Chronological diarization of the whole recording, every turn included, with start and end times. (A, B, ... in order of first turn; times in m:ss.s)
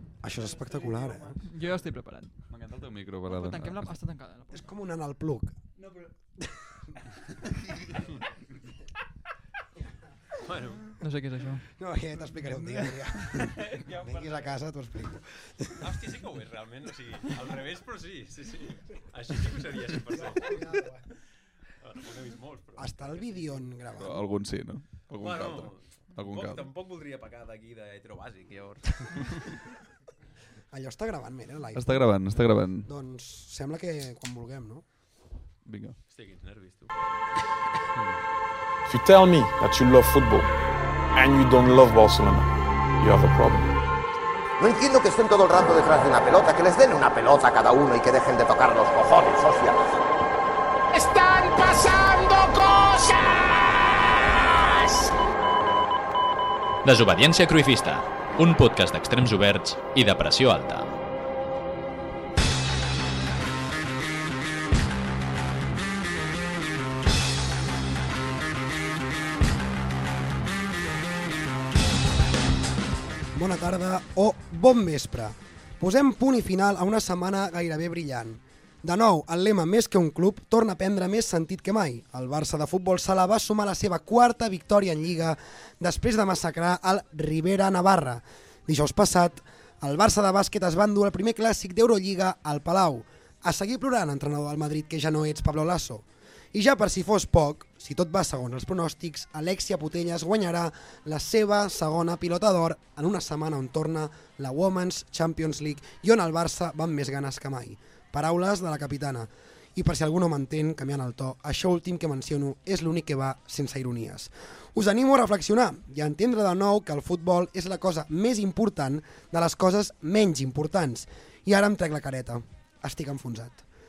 0:00.2-0:01.4 A
0:01.4-0:02.3 B
0:02.5-0:03.8 C
0:03.3-0:04.6 B
0:04.5-0:05.6 A
0:10.4-0:10.9 D
0:11.0-0:11.6 B
0:11.8-0:15.8 A
0:15.8-0:20.6 D
0:20.4-0:21.0 A
0:21.8-0:23.4 D
0:22.8-0:24.2 A
0:24.0-0:26.6 C
0:25.1-0:29.6 D
0:30.7-0:32.1 A
0:31.7-0:32.9 C
0:32.9-0:34.8 A
0:35.6-0:36.0 C
0:36.1-0:37.0 D
0:38.9-0:40.5 E
0:41.1-0:43.8 E
0:44.6-0:49.8 F
0:50.9-0:55.2 G
0:56.8-1:00.9 H
1:13.3-2:03.6 A